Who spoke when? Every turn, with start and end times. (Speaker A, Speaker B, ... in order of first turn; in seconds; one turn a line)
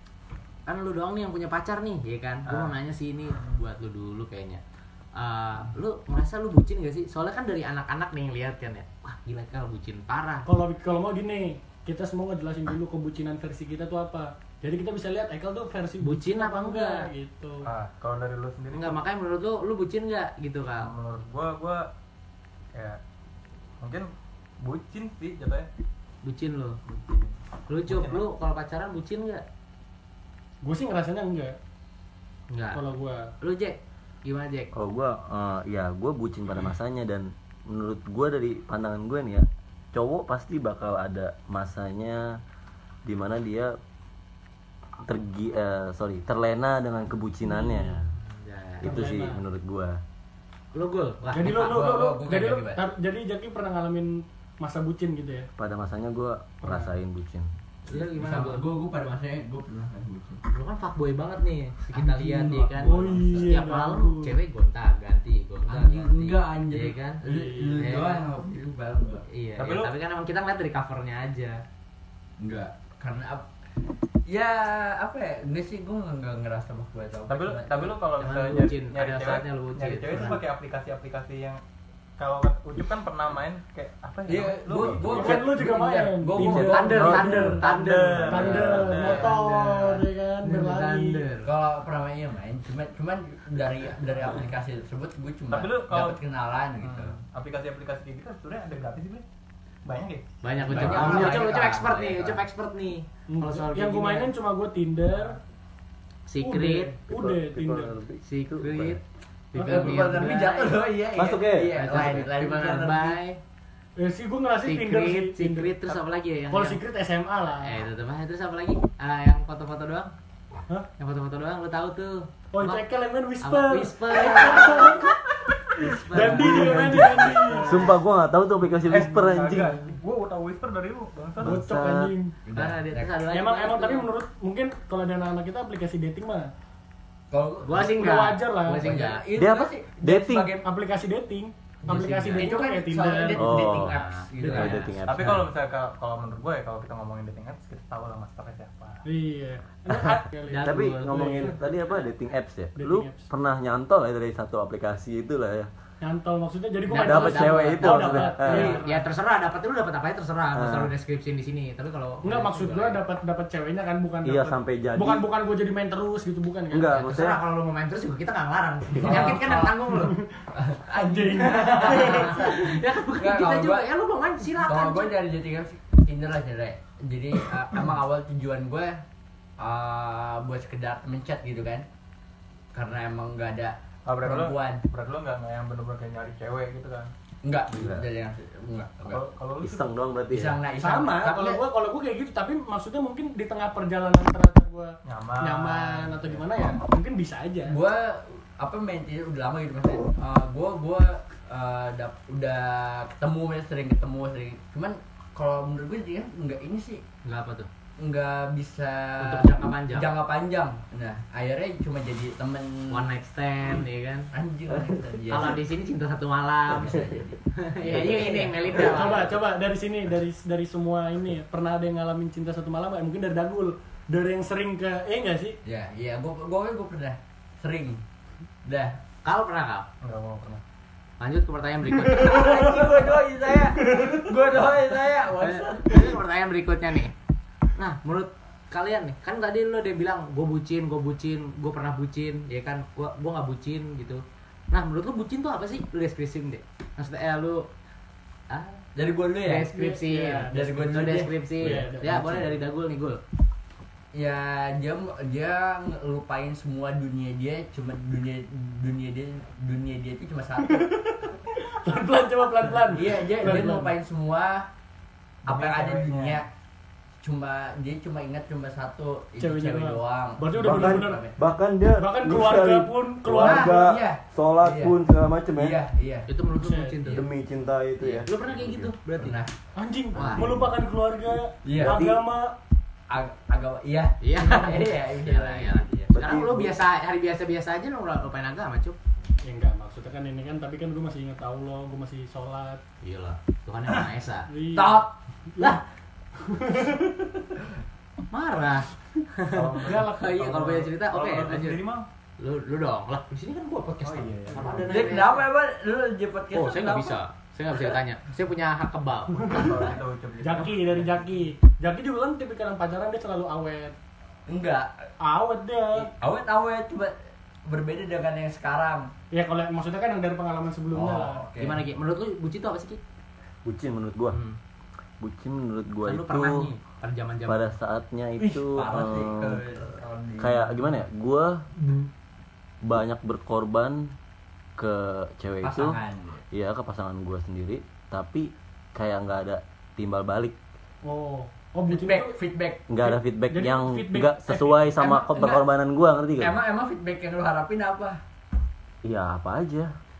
Speaker A: 0.7-4.6
Speaker B: 2.5-2.8
Speaker A: 5.1-10.4
Speaker C: 10.4-17.7
Speaker A: 16.0-17.1
Speaker B: 17.6-19.0
Speaker A: 18.7-20.9
Speaker B: 20.8-21.9
Speaker B: 22.7-23.0
Speaker B: 23.8-24.1
Speaker B: 24.6-25.7
Speaker A: 26.2-26.8
Speaker B: 26.9-27.3
Speaker A: 27.7-29.4
Speaker B: 27.9-28.2
Speaker C: 30.6-31.6
Speaker A: 32.5-32.8
Speaker C: 32.7-33.3
Speaker A: 33.4-34.7
Speaker D: 34.7-42.4
Speaker D: 43.0-43.7
Speaker D: 45.0-48.1
Speaker A: 48.2-48.9
Speaker C: 48.8-49.4
Speaker D: 48.8-50.0
Speaker A: 50.7-51.9
Speaker C: 51.3-55.5
Speaker E: 51.5-52.8
Speaker D: 55.6-57.5
Speaker C: 56.6-56.9
Speaker A: 57.9-58.6
Speaker E: 57.9-60.4
Speaker A: 60.5-68.3
Speaker E: 61.9-63.4
Speaker C: 62.8-64.4
Speaker E: 65.7-69.2
Speaker C: 67.2-67.7
Speaker A: 69.3-71.6
Speaker B: 69.6-69.9
Speaker E: 72.4-73.5
Speaker E: 74.2-78.0
Speaker B: 77.3-81.6
Speaker A: 78.2-80.4
Speaker E: 80.1-80.4
Speaker B: 82.2-85.5
Speaker E: 84.3-87.4
Speaker C: 85.1-87.5
Speaker D: 86.4-87.6
Speaker A: 86.4-91.5
Speaker B: 87.2-89.3
Speaker C: 88.3-91.3
Speaker E: 91.4-97.2
Speaker B: 95.5-96.2
Speaker B: 96.8-99.2
Speaker B: 99.8-101.3
Speaker A: 100.4-104.3
Speaker E: 100.6-102.4
Speaker C: 101.0-101.4
Speaker C: 103.3-105.4
Speaker A: 106.3-106.9
Speaker C: 106.4-107.9
Speaker D: 107.1-109.0
Speaker A: 108.2-109.0
Speaker A: 109.5-110.9
Speaker C: 109.5-110.1
Speaker E: 109.6-113.2
Speaker D: 111.1-112.0
Speaker A: 111.7-113.4
Speaker C: 114.0-115.8
Speaker A: 114.6-116.8
Speaker C: 116.5-117.8
Speaker A: 117.6-120.1
Speaker A: 121.0-122.8
Speaker C: 122.5-125.1
Speaker A: 123.4-125.1
Speaker A: 125.8-127.9
Speaker C: 125.8-127.9
Speaker D: 126.1-129.8
Speaker B: 128.9-131.6
Speaker D: 131.4-132.1
Speaker C: 131.4-132.3
Speaker E: 132.4-133.2
Speaker A: 132.5-134.1
Speaker C: 133.3-136.5
Speaker E: 137.3-137.9
Speaker A: 137.6-139.2
Speaker C: 137.9-138.9
Speaker E: 138.8-140.7
Speaker D: 139.3-140.5
Speaker C: 140.6-143.6
Speaker A: 141.8-142.6
Speaker E: 142.3-144.9
Speaker D: 143.4-143.9
Speaker A: 143.7-144.9
Speaker C: 144.5-144.7
Speaker D: 144.5-145.5
Speaker B: 145.0-149.0
Speaker C: 149.0-151.6
Speaker A: 150.5-151.5
Speaker D: 150.6-155.7
Speaker C: 152.8-153.3
Speaker C: 156.0-159.1
Speaker A: 156.9-163.0
Speaker D: 156.9-158.8
Speaker D: 160.5-160.9
Speaker C: 162.2-167.0
Speaker D: 164.2-165.3
Speaker D: 166.7-167.4
Speaker A: 166.9-170.2
Speaker E: 169.0-169.9
Speaker C: 170.0-172.4
Speaker E: 170.5-173.9
Speaker A: 171.3-175.1
Speaker E: 174.5-179.0
Speaker E: 179.6-181.8
Speaker E: 182.7-184.8
Speaker B: 184.1-187.1
Speaker E: 187.4-189.2
Speaker D: 187.7-188.0
Speaker B: 189.1-189.9
Speaker D: 189.6-190.6
Speaker E: 190.3-191.6
Speaker C: 190.8-197.8
Speaker B: 195.1-196.4
Speaker E: 197.6-207.0
Speaker A: 207.2-207.7
Speaker E: 208.0-213.1
Speaker A: 209.2-210.1
Speaker A: 212.9-214.3
Speaker E: 214.3-215.6
Speaker A: 215.3-217.0
Speaker E: 216.7-219.1
Speaker A: 217.6-219.4
Speaker C: 218.7-225.6
Speaker E: 225.6-228.0
Speaker E: 228.6-229.0
Speaker A: 229.2-229.9
Speaker B: 230.0-230.6
Speaker A: 231.2-232.8
Speaker E: 232.1-236.2
Speaker A: 235.4-237.1
Speaker A: 237.8-247.7
Speaker A: 248.5-248.8
Speaker E: 248.9-249.7
Speaker A: 249.4-253.2
Speaker C: 249.7-250.8
Speaker E: 250.5-252.5
Speaker C: 251.6-252.3
Speaker E: 254.1-261.0
Speaker C: 260.7-263.9
Speaker E: 262.9-264.7
Speaker B: 265.4-266.4
Speaker E: 265.4-266.5
Speaker E: 267.2-271.4
Speaker C: 269.4-271.2
Speaker D: 270.6-275.8
Speaker C: 271.9-273.8
Speaker E: 273.3-274.9
Speaker E: 275.5-276.3
Speaker A: 276.3-277.2
Speaker C: 276.6-277.0
Speaker D: 277.1-278.9
Speaker A: 278.0-279.4
Speaker E: 279.2-279.5
Speaker C: 279.8-282.6
Speaker A: 280.1-280.4
Speaker D: 280.2-280.7
Speaker E: 281.6-282.1
Speaker D: 281.8-282.1
Speaker E: 283.1-286.1
Speaker A: 284.2-289.0
Speaker D: 286.1-286.8
Speaker C: 289.4-292.8
Speaker A: 293.0-294.5
Speaker C: 294.5-295.0
Speaker E: 294.7-295.7
Speaker C: 296.4-297.0
Speaker E: 297.0-297.6
Speaker A: 298.3-301.8
Speaker B: 299.5-302.1
Speaker C: 299.8-300.4
Speaker A: 302.4-305.5
Speaker B: 304.0-305.1
Speaker E: 304.8-307.2
Speaker A: 306.5-309.8
Speaker C: 309.4-309.7
Speaker B: 309.5-311.3
Speaker C: 310.4-313.9
Speaker E: 314.5-315.1
Speaker C: 315.2-316.1
Speaker E: 315.9-317.1
Speaker E: 317.6-319.1
Speaker C: 319.3-321.4
Speaker E: 320.9-321.8
Speaker A: 321.6-323.0
Speaker D: 323.6-324.4
Speaker A: 324.3-324.6
Speaker D: 325.2-326.7
Speaker A: 326.0-327.7
Speaker D: 327.5-329.6
Speaker E: 328.4-330.8
Speaker D: 330.4-331.6
Speaker E: 331.8-332.1
Speaker D: 332.8-334.1
Speaker D: 334.8-336.0
Speaker E: 335.6-336.4
Speaker D: 336.5-340.6
Speaker C: 341.0-342.4
Speaker E: 341.9-342.8
Speaker D: 342.9-346.6
Speaker C: 343.1-345.5
Speaker E: 345.3-345.6
Speaker E: 346.4-348.2
Speaker D: 349.0-349.9